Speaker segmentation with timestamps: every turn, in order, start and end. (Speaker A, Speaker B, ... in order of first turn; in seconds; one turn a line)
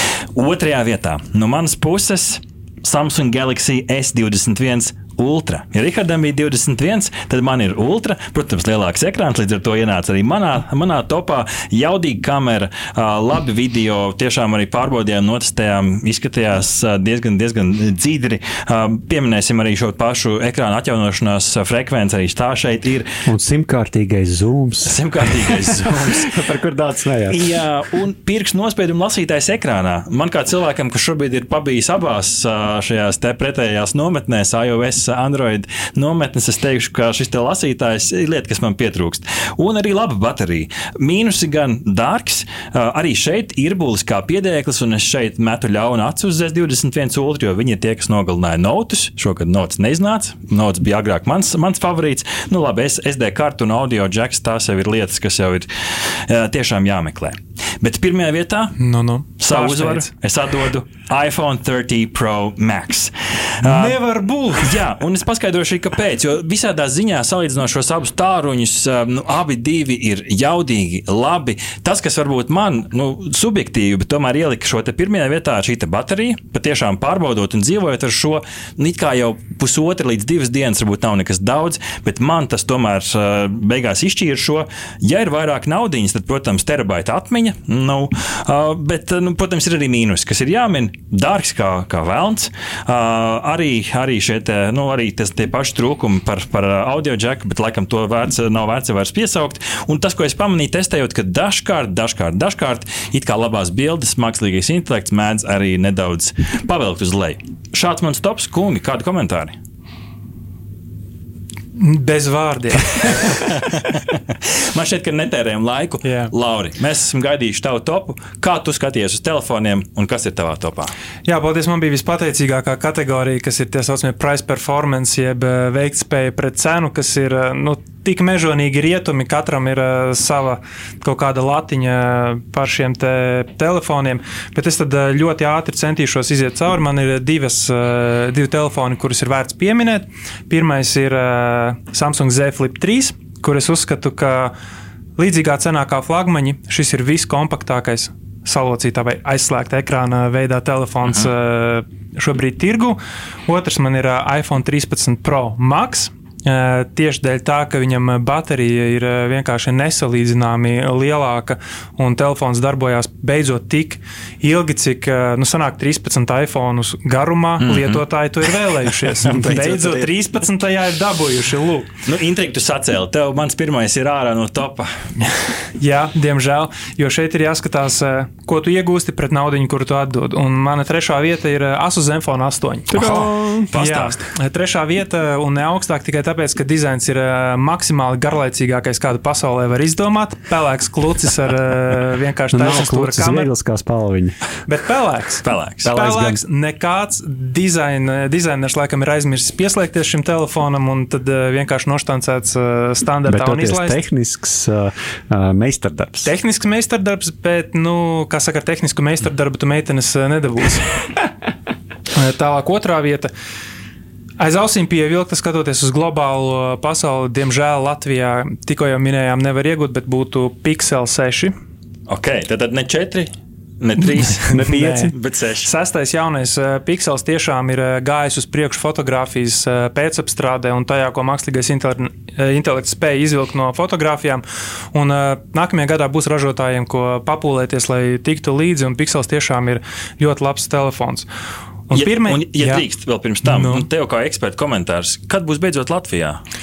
Speaker A: 0.4-23.1
Speaker B: 23.3-27.6
Speaker A: 24.9-26.4
Speaker A: 27.3-58.8
Speaker C: 58.8-60.1
Speaker A: 59.4-64.0
Speaker C: 63.6-64.8
Speaker A: 64.6-109.6
Speaker C: 111.8-113.4
Speaker A: 113.2-114.2
Speaker A: 114.7-120.9
Speaker C: 116.0-116.3
Speaker C: 121.2-144.5
Speaker C: 145.2-171.9
Speaker A: 167.6-168.0
Speaker B: 169.3-170.1
Speaker A: 169.4-170.0
Speaker A: 172.1-174.9
Speaker C: 175.8-183.1
Speaker B: 182.9-183.7
Speaker A: 182.9-184.3
Speaker C: 183.7-193.5
Speaker B: 192.5-194.3
Speaker C: 194.7-204.0
Speaker A: 195.4-195.9
Speaker B: 195.8-196.4
Speaker B: 203.3-206.3
Speaker C: 206.2-211.0
Speaker C: 212.1-213.3
Speaker C: 214.4-221.5
Speaker A: 222.1-224.6
Speaker B: 224.5-225.1
Speaker C: 224.5-241.3
Speaker A: 225.1-225.7
Speaker C: 241.9-242.9
Speaker A: 241.9-246.4
Speaker C: 243.4-243.9